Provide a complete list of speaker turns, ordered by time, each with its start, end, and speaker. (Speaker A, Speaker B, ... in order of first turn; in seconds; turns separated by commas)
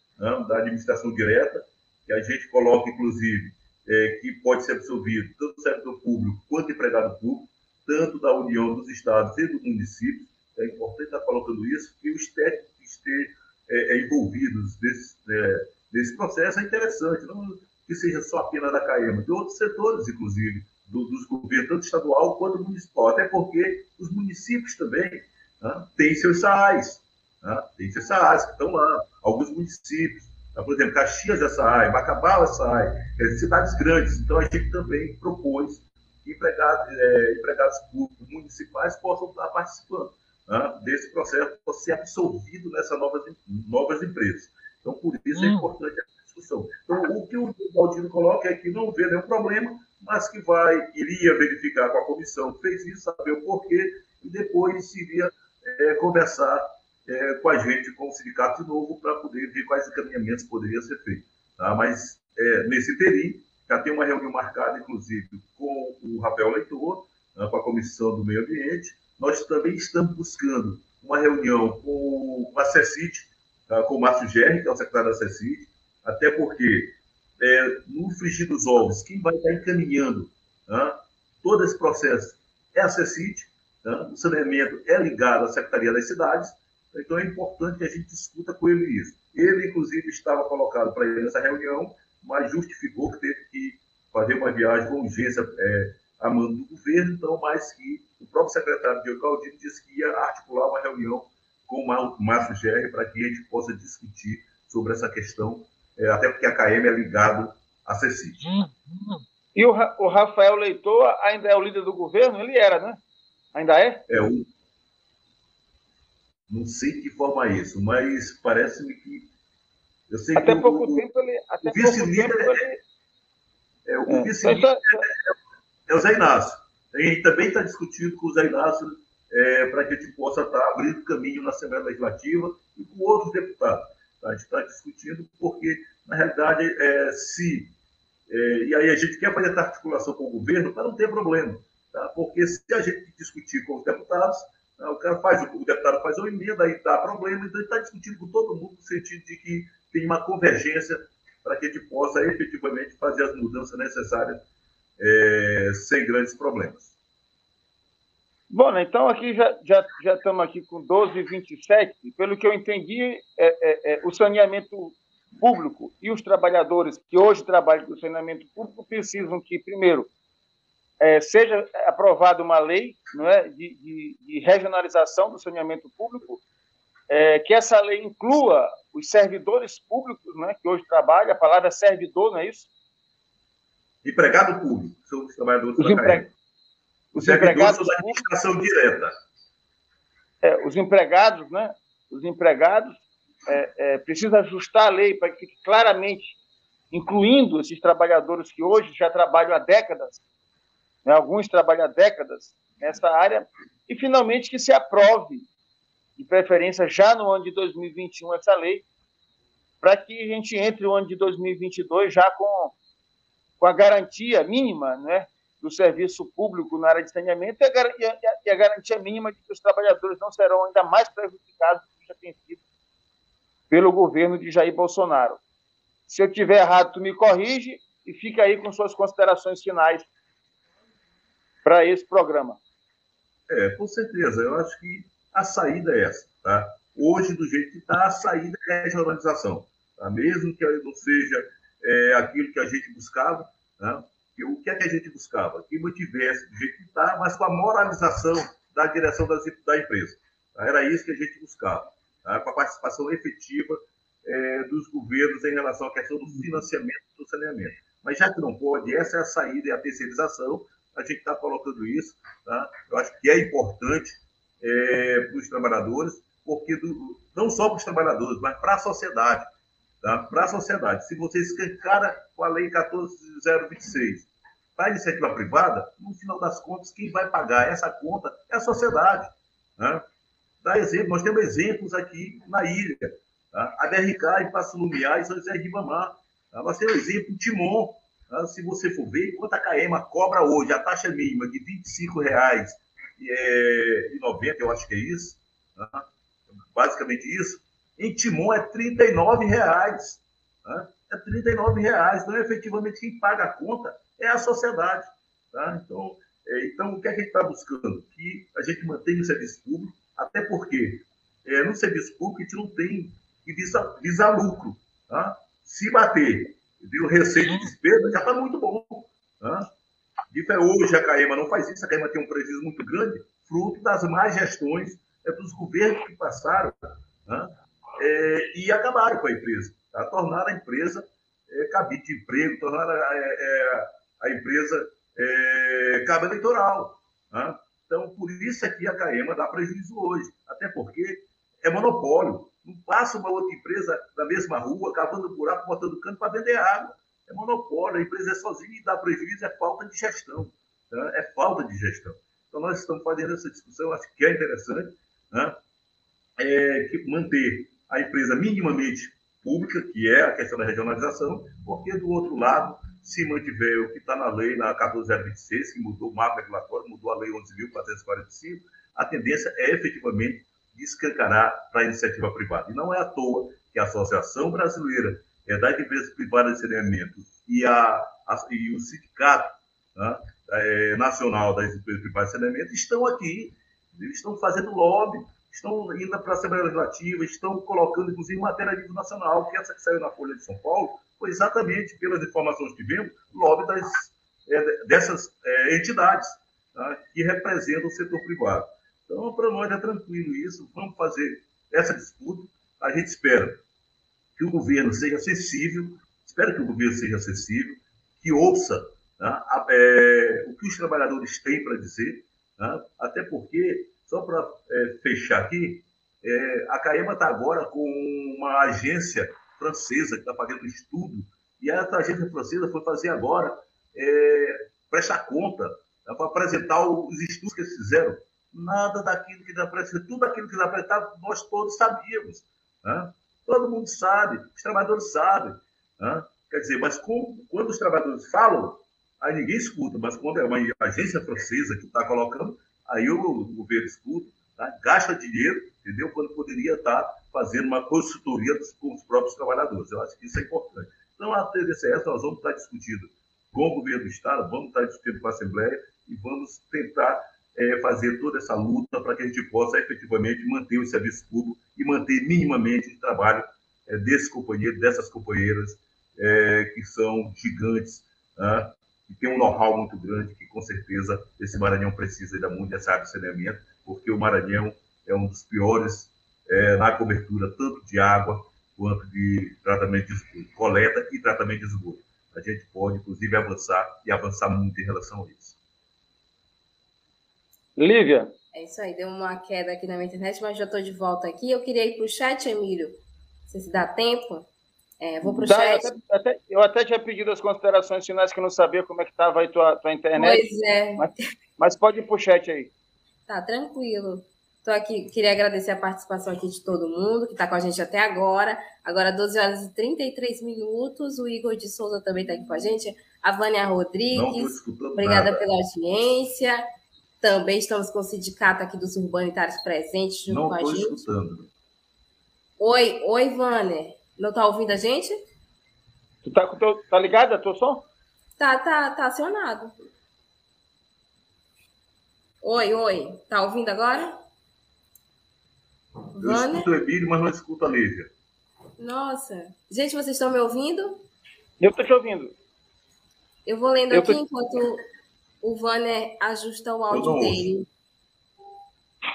Speaker A: 0.2-108.5, Speaker B: 109.6-113.0, Speaker B: 113.5-114.0, Speaker A: 114.1-114.5, Speaker A: 116.5-119.3, Speaker A: 120.1-121.1, Speaker B: 120.4-122.8, Speaker A: 121.7-122.7, Speaker A: 123.9-125.4, Speaker B: 124.1-125.0, Speaker A: 125.9-137.7, Speaker A: 138.3-154.4, Speaker A: 155.0-156.9, Speaker B: 158.5-170.1, Speaker B: 171.0-176.4, Speaker B: 177.1-182.7, Speaker A: 184.0-186.3, Speaker B: 185.8-186.2, Speaker B: 187.1-188.2, Speaker A: 187.2-189.1, Speaker B: 190.4-196.4, Speaker B: 196.9-200.2, Speaker B: 201.1-205.5, Speaker B: 206.2-208.9, Speaker B: 209.8-212.8, Speaker B: 213.6-222.6, Speaker B: 223.7-225.4, Speaker B: 226.1-230.1, Speaker B: 231.6-232.6, Speaker A: 233.5-269.5, Speaker A: 270.0-280.1, Speaker A: 280.6-296.1, Speaker A: 296.6-319.7, Speaker A: 320.3-355.6, Speaker A: 356.4-403.6, Speaker A: 404.4-485.6, Speaker B: 487.8-488.3, Speaker C: 488.5-492.9, Speaker C: 493.5-494.5, Speaker C: 495.0-495.9, Speaker B: 495.2-500.5, Speaker C: 500.2-501.1, Speaker B: 501.0-502.7, Speaker C: 503.3-516.6, Speaker A: 514.1-515.4, Speaker C: 517.2-521.1, Speaker A: 520.3-521.5, Speaker C: 522.6-525.2, Speaker B: 526.2-527.9, Speaker C: 528.4-529.7, Speaker C: 532.4-534.2, Speaker C: 536.1-536.7, Speaker A: 536.2-538.1, Speaker C: 538.8-541.0, Speaker B: 541.6-542.3, Speaker C: 543.5-544.8, Speaker B: 543.9-544.2, Speaker C: 545.4-547.6, Speaker A: 546.9-547.5